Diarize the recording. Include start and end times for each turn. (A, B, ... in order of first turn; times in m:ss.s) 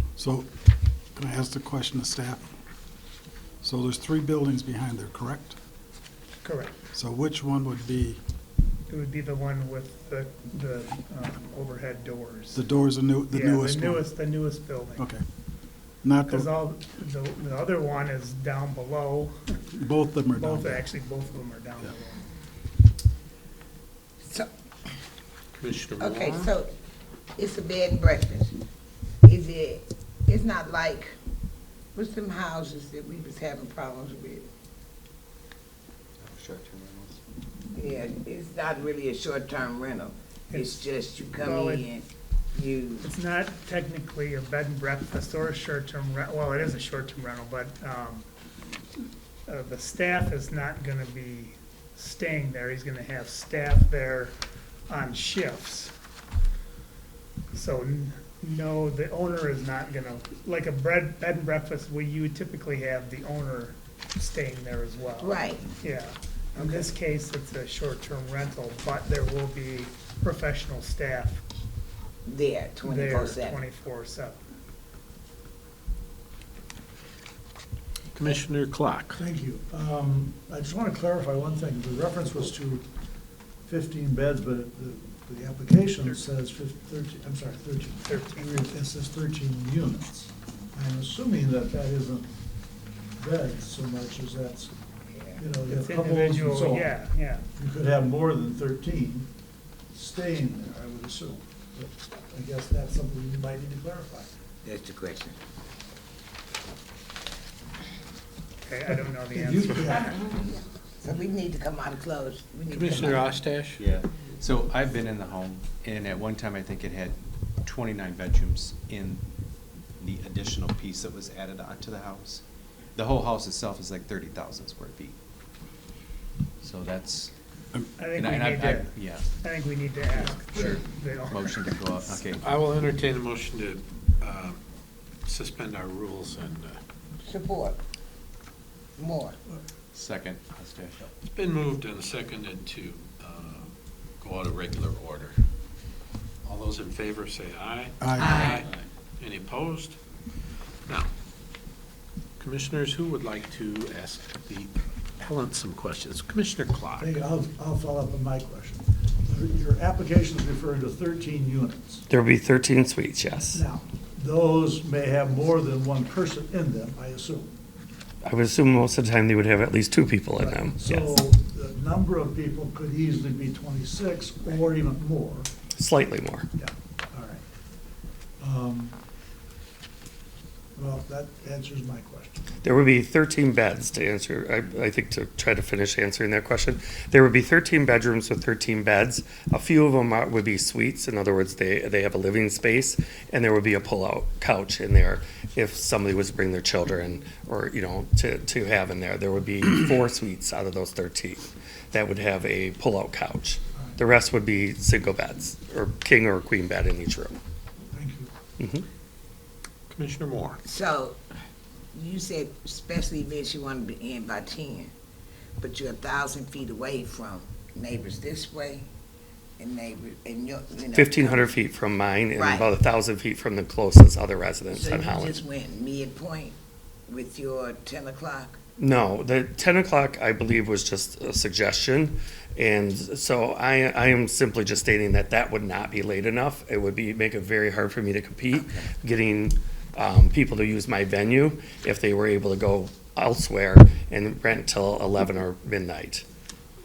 0:00.2-0:00.5 A
0:01.2-0:02.5 A
0:03.6-0:05.6 A
0:06.4-0:06.7 B
0:06.9-0:08.2 A
0:08.9-0:12.6 B
0:12.5-0:14.1 A
0:13.3-0:15.1 B
0:15.0-0:15.2 A
0:16.0-0:16.5 A
0:16.3-0:19.6 B
0:19.7-0:20.8 A
0:20.3-0:22.2 B
0:24.2-0:24.5 C
0:25.6-0:26.5 D
0:26.0-0:26.7 C
0:27.4-0:28.5 C
0:29.2-0:31.2 C
0:31.9-0:34.5 C
0:36.2-0:37.2 E
0:37.7-0:43.1 C
0:40.5-0:40.8 B
0:41.4-0:41.9 B
0:43.0-0:48.2 B
0:49.5-0:54.3 B
0:54.9-0:55.9 B
0:57.5-1:11.4 B
1:05.2-1:05.6 C
1:12.2-1:13.6 C
1:12.8-1:14.4 B
1:18.1-1:19.2 D
1:19.2-1:22.8 F
1:23.6-1:32.3 F
1:28.0-1:28.6 B
1:33.2-1:34.7 F
1:35.1-1:35.4 C
1:35.4-1:36.9 F
1:35.7-1:37.5 B
1:37.5-1:39.3 F
1:39.9-1:44.3 F
1:44.6-1:45.4 C
1:48.6-1:50.1 B
1:49.3-1:50.1 F
1:50.2-1:53.3 C
1:52.7-1:53.8 D
1:53.8-1:59.2 E
2:00.0-2:02.4 E
2:02.9-2:05.2 E
2:06.6-2:07.3 E
2:08.0-2:11.8 B
2:08.2-2:09.3 E
2:11.3-2:12.6 E
2:12.3-2:14.6 D
2:15.2-2:16.8 D
2:17.2-2:17.8 C
2:19.0-2:19.4 C
2:19.9-2:21.1 E
2:21.3-2:23.7 D
2:24.2-2:25.4 D
2:26.4-2:30.0 D
2:28.0-2:28.4 A
2:28.2-2:28.6 C
2:32.4-2:37.2 D
2:37.0-2:42.0 F
2:42.1-2:43.6 G
2:43.5-2:47.5 F
2:48.2-2:51.1 G
2:50.4-2:55.5 F
2:55.8-2:56.4 G
2:56.6-2:57.4 F
2:58.4-2:59.0 F
3:00.8-3:02.5 F
3:02.6-3:27.4 G
3:27.9-3:28.3 F
3:28.6-3:28.8 G
3:29.9-3:30.6 D
3:30.6-3:31.2 C
3:31.9-3:34.9 C
3:35.6-3:38.9 C
3:39.6-3:41.5 C
3:40.9-3:45.4 G
3:42.3-3:42.7 C
3:44.7-3:46.5 C
3:47.1-3:48.6 C
3:48.8-4:06.2 G